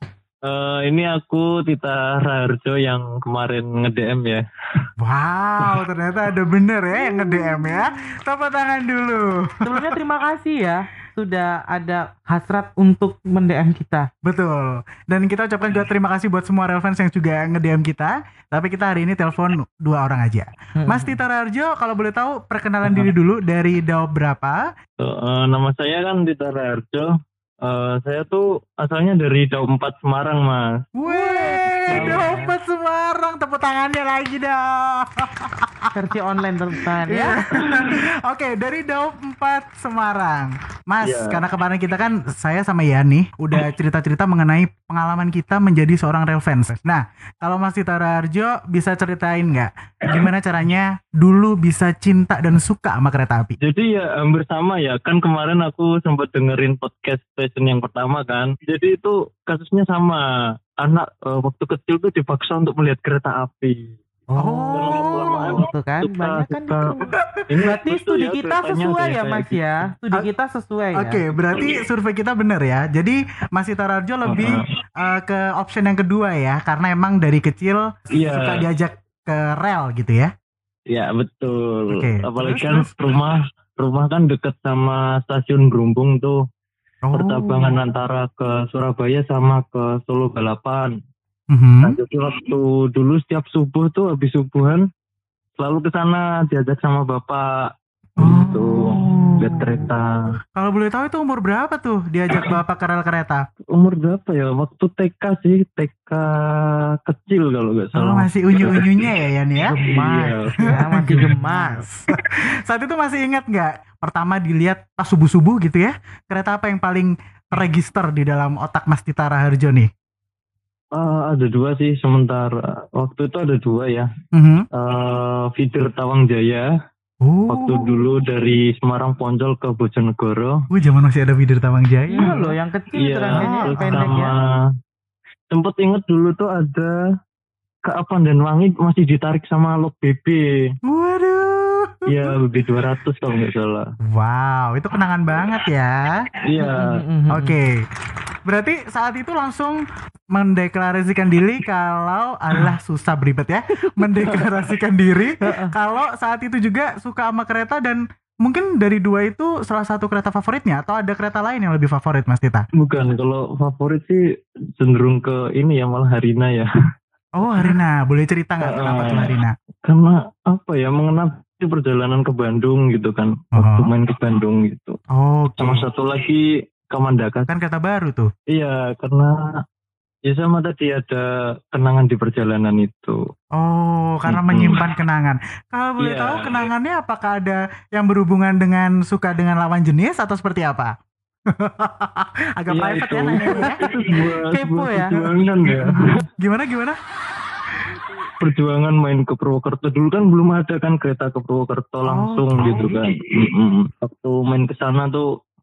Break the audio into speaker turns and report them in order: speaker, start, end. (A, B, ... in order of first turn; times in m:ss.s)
0:00.4-0:04.9 A
0:05.0-0:09.9 B
0:07.0-0:07.7 C
0:09.6-0:14.1 C
0:14.2-0:24.6 B
0:20.8-0:21.2 C
0:22.8-0:23.1 C
0:25.0-0:27.1 A
0:27.6-0:30.8 A
0:31.0-0:35.9 B
0:31.0-0:32.5 C
0:31.9-0:32.4 A
0:35.9-0:37.4 C
0:37.1-0:53.6 B
0:37.6-0:37.9 A
0:41.0-0:41.4 A
0:53.6-1:00.2 A
1:00.8-1:04.0 A
1:04.3-1:11.2 C
1:04.4-1:05.6 B
1:04.7-1:09.8 A
1:11.0-1:20.3 B
1:11.5-1:11.8 A
1:14.2-1:14.8 A
1:18.1-1:18.6 A
1:20.9-1:26.4 A
1:21.9-1:22.9 B
1:27.1-1:27.7 B
1:27.1-1:30.9 A
1:31.5-1:32.0 B
1:31.8-1:34.8 A
1:35.6-1:37.5 A
1:38.2-1:40.2 A
1:38.2-1:39.9 B
1:40.6-1:43.4 B
1:43.7-1:49.1 A
1:48.0-1:49.7 B
1:49.6-1:51.8 C
1:49.8-1:50.8 A
1:50.8-1:59.9 B
2:00.9-2:04.1 A
2:04.3-2:04.6 B
2:04.7-2:06.7 A
2:07.2-2:07.9 B
2:07.5-2:10.6 A
2:10.7-2:12.4 B
2:12.1-2:14.3 C
2:12.2-2:14.7 A
2:13.3-2:14.2 B
2:15.5-2:16.9 A
2:17.9-2:20.7 A
2:20.9-2:22.4 B
2:22.1-2:23.8 A
2:24.1-2:26.2 B
2:26.4-2:27.0 A
2:26.6-2:27.5 C
2:27.3-2:27.8 B
2:28.4-2:29.8 B
2:30.3-2:42.6 B
2:34.2-2:34.5 A
2:35.4-2:35.7 C
2:42.8-2:44.2 A
2:44.8-2:46.7 A
2:47.4-2:49.5 B
2:48.6-2:55.0 A
2:53.6-2:53.9 B
2:55.1-2:55.8 B
2:55.6-2:57.5 A
2:57.5-2:58.3 B
2:58.5-2:59.4 A
3:00.3-3:03.2 A
3:03.6-3:10.9 B
3:04.3-3:04.9 A
3:06.0-3:06.7 A
3:11.5-3:13.8 B
3:12.7-3:16.3 A
3:14.2-3:15.3 C
3:15.6-3:17.0 B
3:18.4-3:25.3 A
3:22.0-3:23.0 B